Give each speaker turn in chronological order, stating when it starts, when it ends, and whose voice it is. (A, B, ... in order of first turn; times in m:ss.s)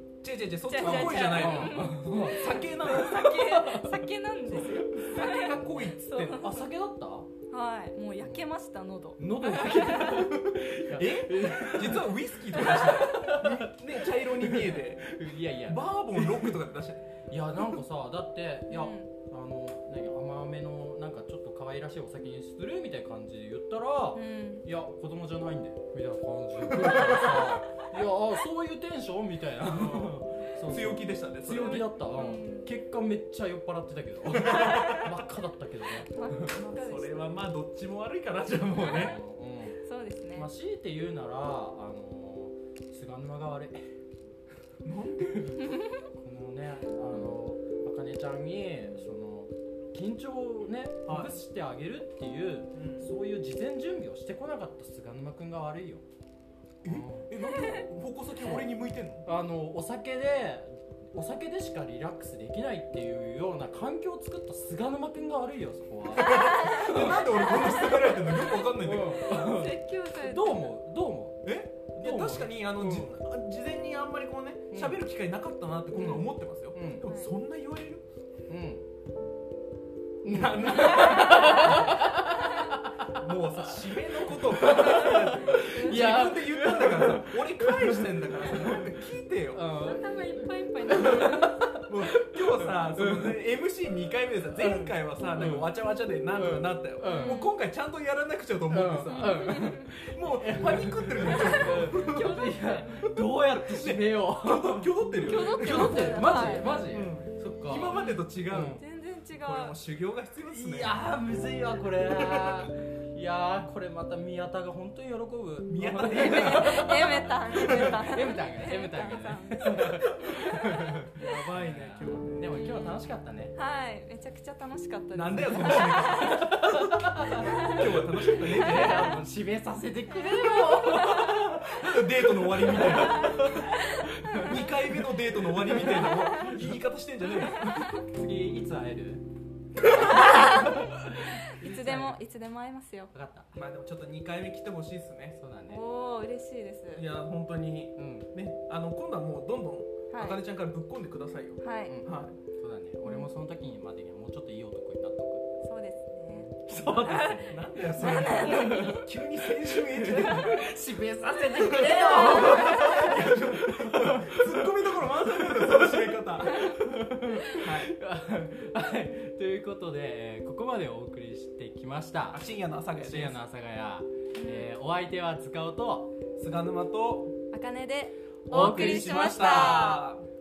0:00.2-0:03.4 A
0:00.6-0:06.7 B
0:00.8-0:04.0 C
0:04.5-0:06.5 A
0:06.4-0:07.3 C
0:07.5-0:10.3 B
0:08.2-0:08.5 C
0:09.2-0:16.6 C
0:10.1-0:17.1 A
0:17.3-0:36.3 C
0:18.7-0:19.1 B
0:24.1-0:24.7 B
0:26.8-0:27.5 A
0:29.6-0:31.9 A
0:31.6-0:32.8 B
0:34.7-0:35.0 B
0:36.1-0:37.3 B
0:36.4-0:39.2 A
0:38.8-0:39.2 B
0:38.8-0:39.8 C
0:39.7-0:40.5 B
0:40.3-0:43.9 C
0:44.8-0:45.6 A
0:45.5-0:56.0 C
0:51.1-0:51.4 A
0:52.7-0:53.1 A
0:56.8-0:57.8 C
0:56.8-0:59.3 A
0:58.3-0:58.7 C
0:59.2-1:13.2 C
1:06.2-1:09.4 A
1:09.1-1:10.8 B
1:11.4-1:18.0 A
1:14.7-1:15.0 C
1:15.9-1:17.1 C
1:17.0-1:17.3 B
1:18.5-1:18.8 C
1:20.2-1:29.0 C
1:20.3-1:22.0 A
1:20.9-1:22.0 B
1:23.1-1:29.7 A
1:25.7-1:26.4 B
1:29.5-1:30.3 C
1:29.7-1:31.6 B
1:30.8-1:33.4 C
1:31.0-1:51.0 A
1:34.6-1:35.7 C
1:36.3-1:37.4 C
1:37.0-1:37.5 B
1:38.7-1:48.8 C
1:39.1-1:39.9 B
1:41.3-1:42.9 B
1:45.2-1:46.9 B
1:47.9-1:48.2 B
1:48.8-1:49.8 B
1:50.5-2:03.6 C
1:52.2-1:52.6 A
1:55.7-1:58.0 A
1:56.0-2:00.0 B
1:59.8-2:00.4 A
2:01.2-2:02.6 A
2:02.5-2:06.4 B
2:05.1-2:06.9 A
2:05.5-2:11.7 C
2:07.4-2:09.2 A
2:10.2-2:11.3 B
2:10.8-2:13.8 A
2:12.7-2:13.3 C
2:13.0-2:14.5 B
2:14.2-2:14.6 C
2:14.4-2:17.9 A
2:15.6-2:16.7 C
2:17.6-2:19.2 C
2:19.8-2:22.2 C
2:20.1-2:23.1 B
2:23.1-2:23.6 C
2:23.5-2:25.4 A
2:25.4-2:25.8 C
2:25.7-2:27.1 B
2:26.9-2:32.4 A
2:28.0-2:28.3 C
2:30.1-2:30.4 B
2:31.6-2:32.0 B
2:31.9-2:35.5 C
2:33.0-2:33.3 B
2:35.6-2:36.5 B
2:36.3-2:39.1 C
2:36.7-2:40.7 A
2:37.0-2:39.0 B
2:39.7-2:44.7 C
2:41.6-2:46.9 A
2:41.6-2:43.1 B
2:45.4-2:52.4 C
2:47.5-2:47.9 A
2:52.3-2:53.4 A
2:53.0-2:56.1 C
2:54.3-2:54.7 B
2:56.4-2:57.3 A
2:57.5-3:00.0 B
2:58.5-2:59.8 C
2:58.5-3:00.2 A